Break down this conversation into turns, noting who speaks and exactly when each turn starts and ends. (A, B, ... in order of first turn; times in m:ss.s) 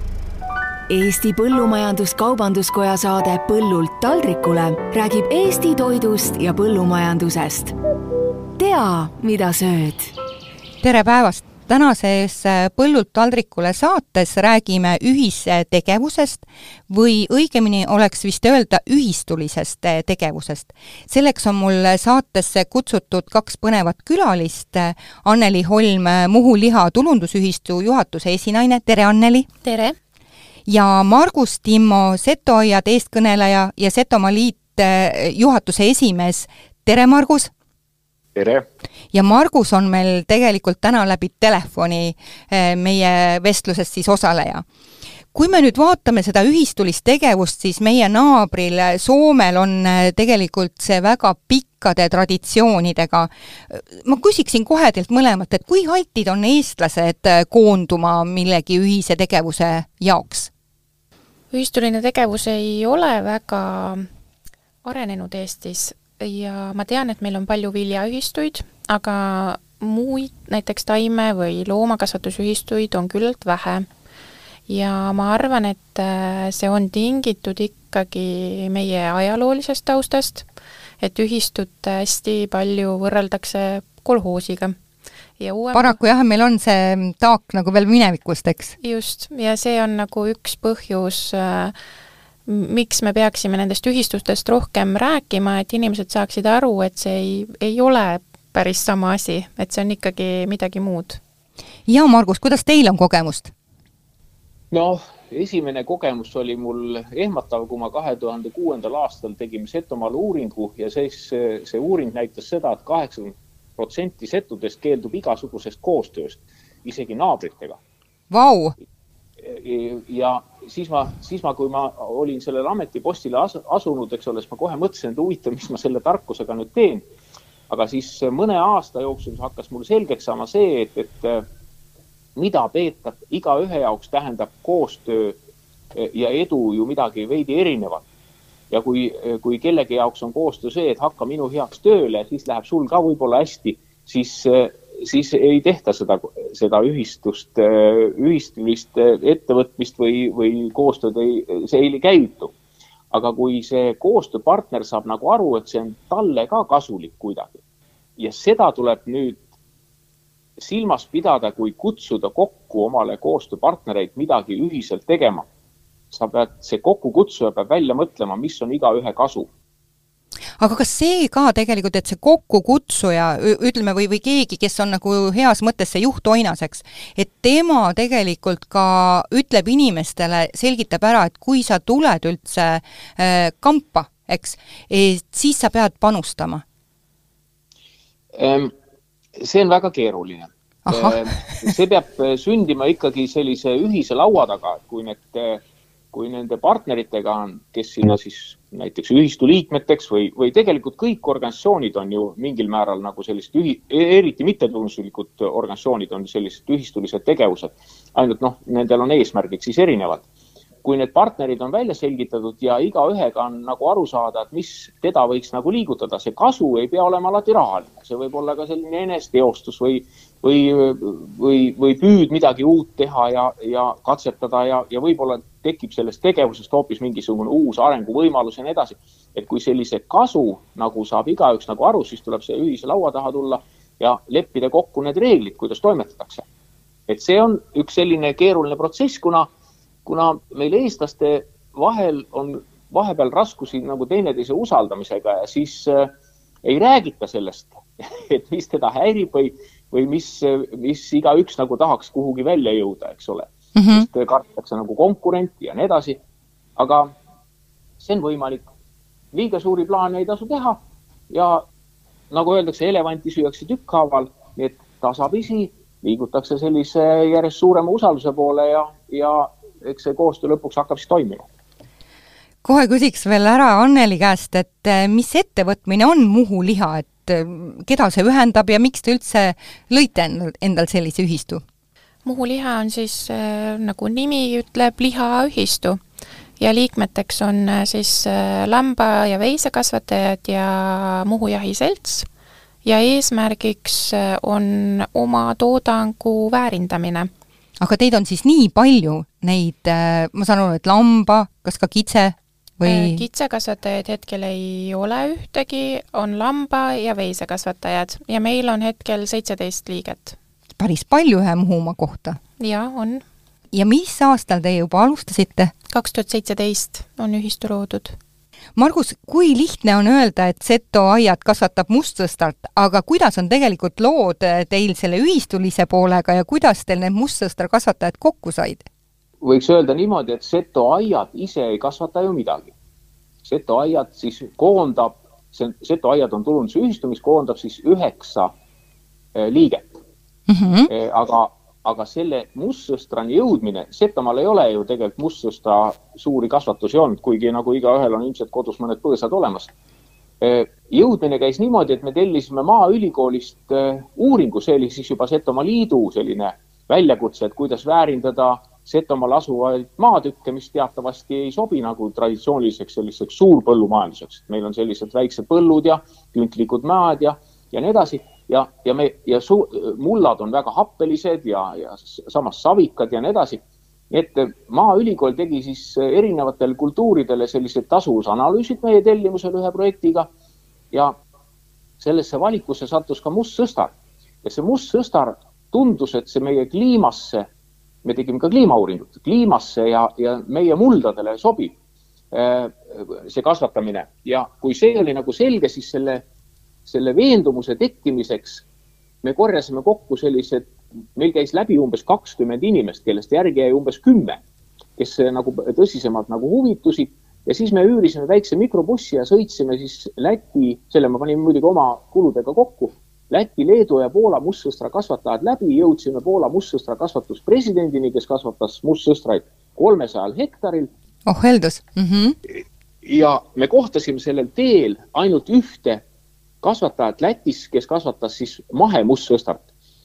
0:00.9-0:07.7 A
0:08.6-0:10.1 A
0:10.8-0:29.5 B
0:29.6-0:30.0 C
0:30.7-0:37.5 B
0:38.3-0:38.6 D
0:39.1-0:44.6 B
0:45.3-1:00.5 B
1:01.5-1:04.0 C
1:04.8-1:13.9 C
1:14.7-1:20.5 C
1:21.0-1:24.8 C
1:25.4-1:26.0 C
1:25.7-1:28.8 B
1:28.8-1:31.7 C
1:32.5-1:41.2 C
1:41.9-1:43.5 B
1:44.7-1:57.8 D
1:58.3-1:58.7 B
1:59.4-2:07.0 D
2:07.7-2:11.4 D
2:12.4-2:15.4 D
2:15.9-2:18.0 D
2:18.7-2:32.5 D
2:33.1-2:37.6 D
2:38.2-2:39.4 D
2:40.6-2:45.4 D
2:46.1-2:49.5 D
2:50.6-3:06.6 B
3:08.3-3:08.7 D
3:09.4-3:30.2 D
3:10.9-3:11.2 B
3:30.8-3:56.4 D
3:57.1-3:59.5 D
4:00.0-4:06.1 D
4:06.6-4:16.2 D
4:13.7-4:14.1 B
4:16.8-4:17.1 D
4:18.0-4:18.6 D
4:19.3-4:20.8 D
4:21.3-4:21.6 D
4:22.3-4:31.4 D
4:32.6-4:41.6 B
4:42.2-4:46.0 C
4:46.6-4:52.3 C
4:52.8-4:57.3 C
4:57.8-5:03.2 B
5:02.8-5:10.4 C
5:10.8-5:12.4 B
5:12.6-5:13.2 C
5:13.7-5:15.7 B
5:15.9-5:18.2 C
5:18.8-5:28.9 B
5:29.4-5:32.7 D
5:33.4-5:38.5 D
5:39.3-5:39.9 D
5:40.5-5:40.9 B
5:40.9-5:49.7 D
5:50.4-6:13.6 D
6:14.1-6:20.3 D
6:22.0-6:23.9 D
6:24.4-6:27.5 D
6:28.0-6:31.7 D
6:32.3-6:36.2 D
6:36.8-6:38.6 D
6:39.2-6:44.4 D
6:45.0-7:00.9 D
7:01.3-7:02.4 B
7:02.5-7:06.0 D
7:06.6-7:09.6 D